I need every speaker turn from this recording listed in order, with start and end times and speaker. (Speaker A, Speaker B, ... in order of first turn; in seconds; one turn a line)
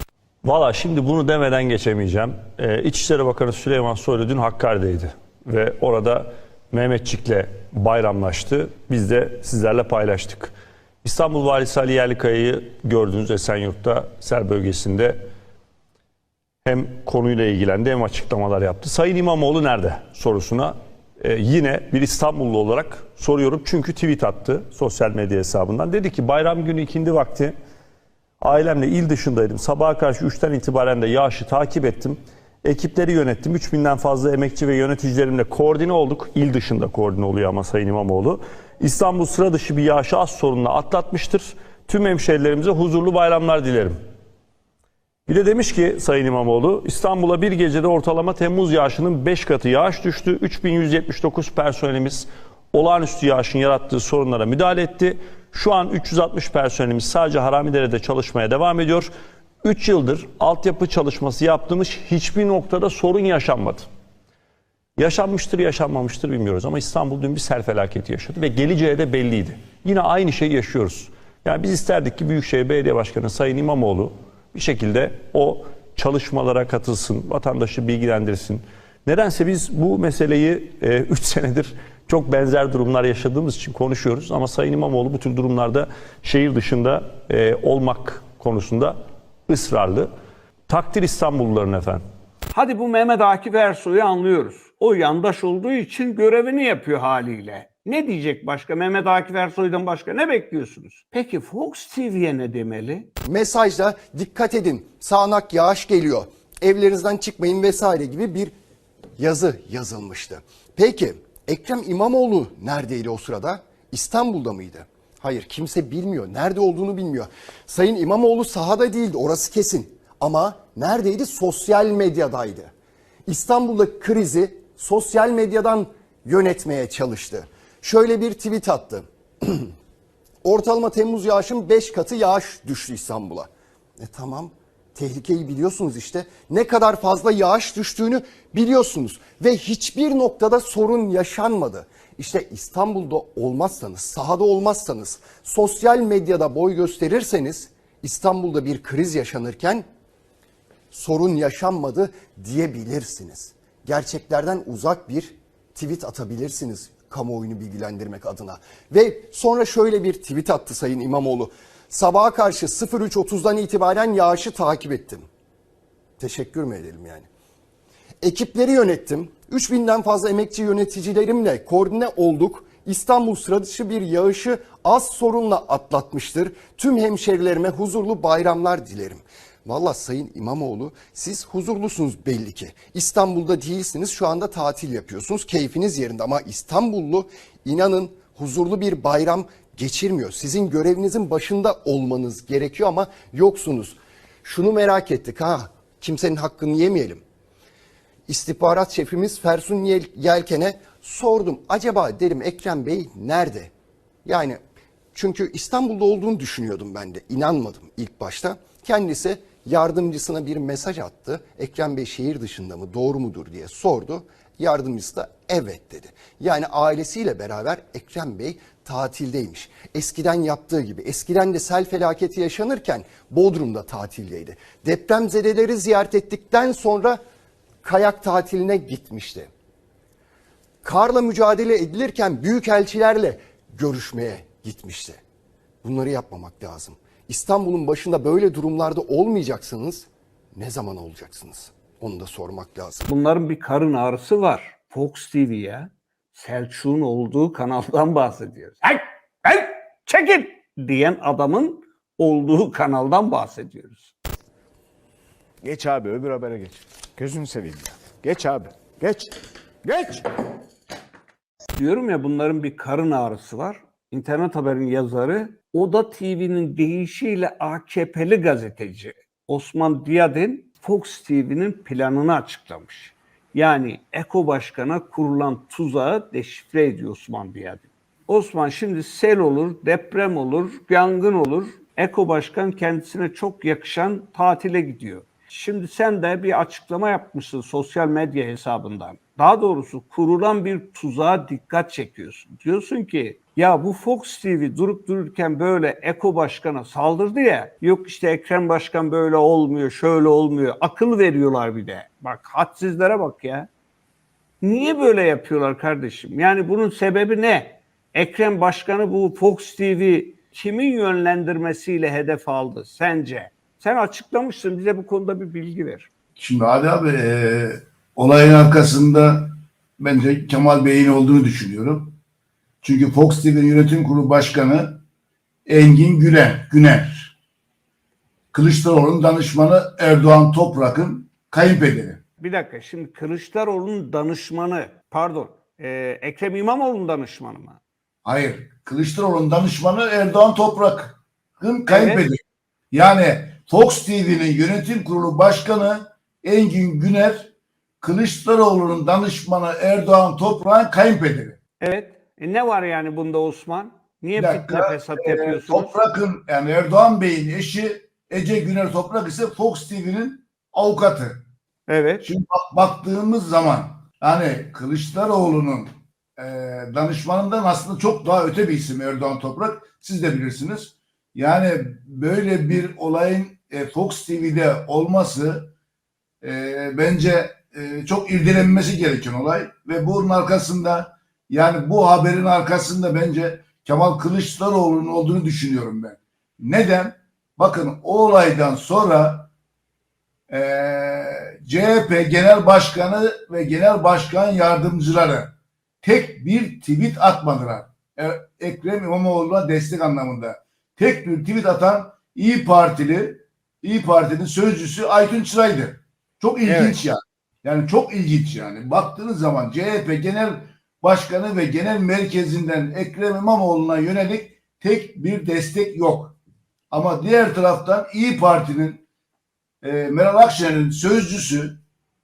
Speaker A: 0.4-15.3
Speaker A: 16.6-27.5
Speaker A: 28.4-44.0
Speaker A: 45.3-59.1
Speaker A: 59.6-63.9
Speaker A: 65.0-90.1
Speaker A: 90.7-92.0
Speaker B: 92.5-103.1
Speaker C: 103.2-108.5
Speaker C: 109.2-122.7
Speaker C: 123.2-129.7
Speaker C: 130.4-149.8
Speaker C: 150.9-165.3
Speaker C: 166.2-167.3
Speaker C: 168.2-197.2
Speaker C: 198.3-203.7
Speaker C: 204.2-204.6
Speaker C: 205.1-227.2
Speaker C: 227.8-229.5
Speaker C: 230.8-235.2
Speaker C: 235.8-243.1
Speaker B: 243.1-254.1
Speaker D: 255.6-260.2
Speaker B: 261.7-303.7
Speaker B: 304.6-316.1
Speaker E: 316.4-322.2
Speaker E: 322.8-325.0
Speaker E: 325.7-327.3
Speaker E: 328.5-332.2
Speaker B: 332.4-337.8
Speaker E: 338.2-342.4
Speaker B: 341.9-342.2
Speaker E: 342.9-347.5
Speaker E: 348.0-351.6
Speaker B: 351.8-356.0
Speaker E: 354.4-361.4
Speaker B: 361.9-362.3
Speaker E: 362.2-375.7
Speaker E: 376.4-389.5
Speaker E: 390.5-416.4
Speaker B: 406.6-407.0
Speaker E: 416.9-419.0
Speaker E: 419.8-421.8